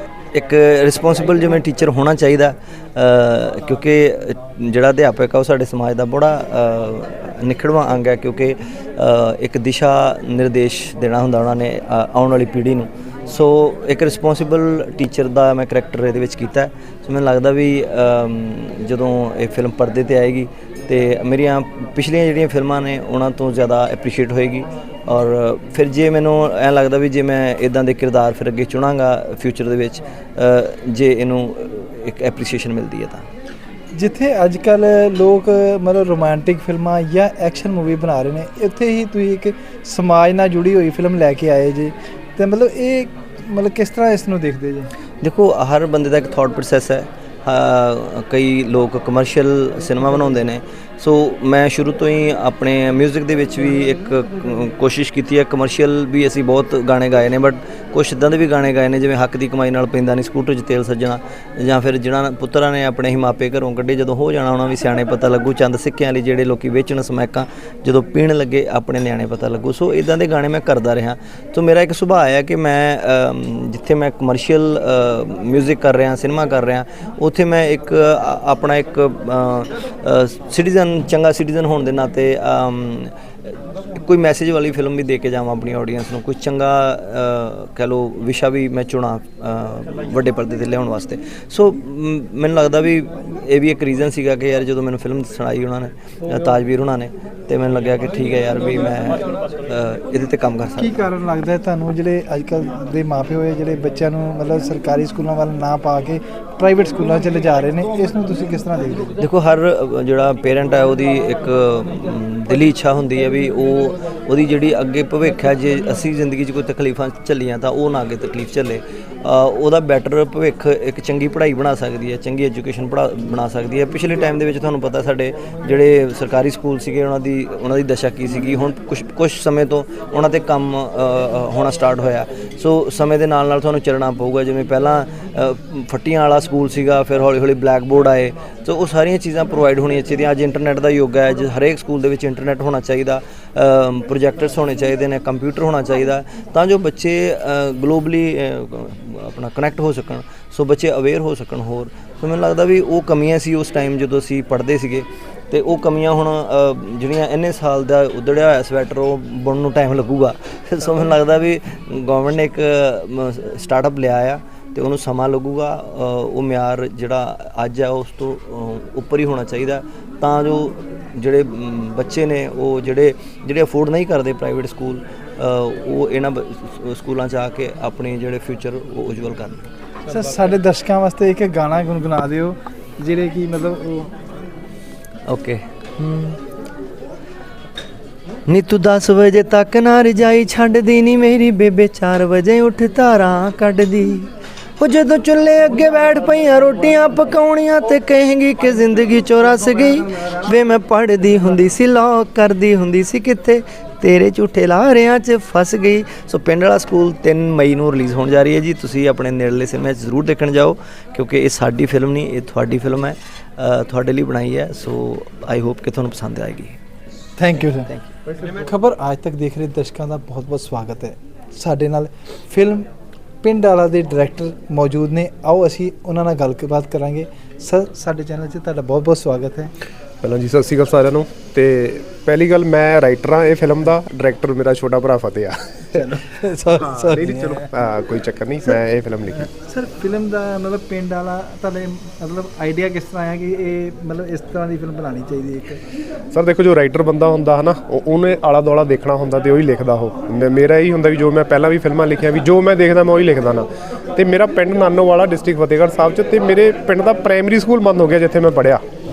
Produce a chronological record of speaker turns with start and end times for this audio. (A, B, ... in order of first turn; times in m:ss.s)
0:00.3-0:33.2 A
0:33.9-0:44.9 B
0:45.2-1:23.1 A
1:24.0-1:41.0 A
1:40.8-1:49.2 B
1:49.2-2:59.7 A
3:00.1-3:04.1 B
3:05.3-3:06.4 A
3:08.5-3:36.8 A
3:37.4-3:37.9 B
3:38.5-3:42.9 B
3:43.4-3:49.7 B
3:50.2-3:56.0 C
3:56.0-3:57.6 B
3:56.8-3:59.5 C
3:59.5-4:05.8 B
4:06.3-4:18.8 C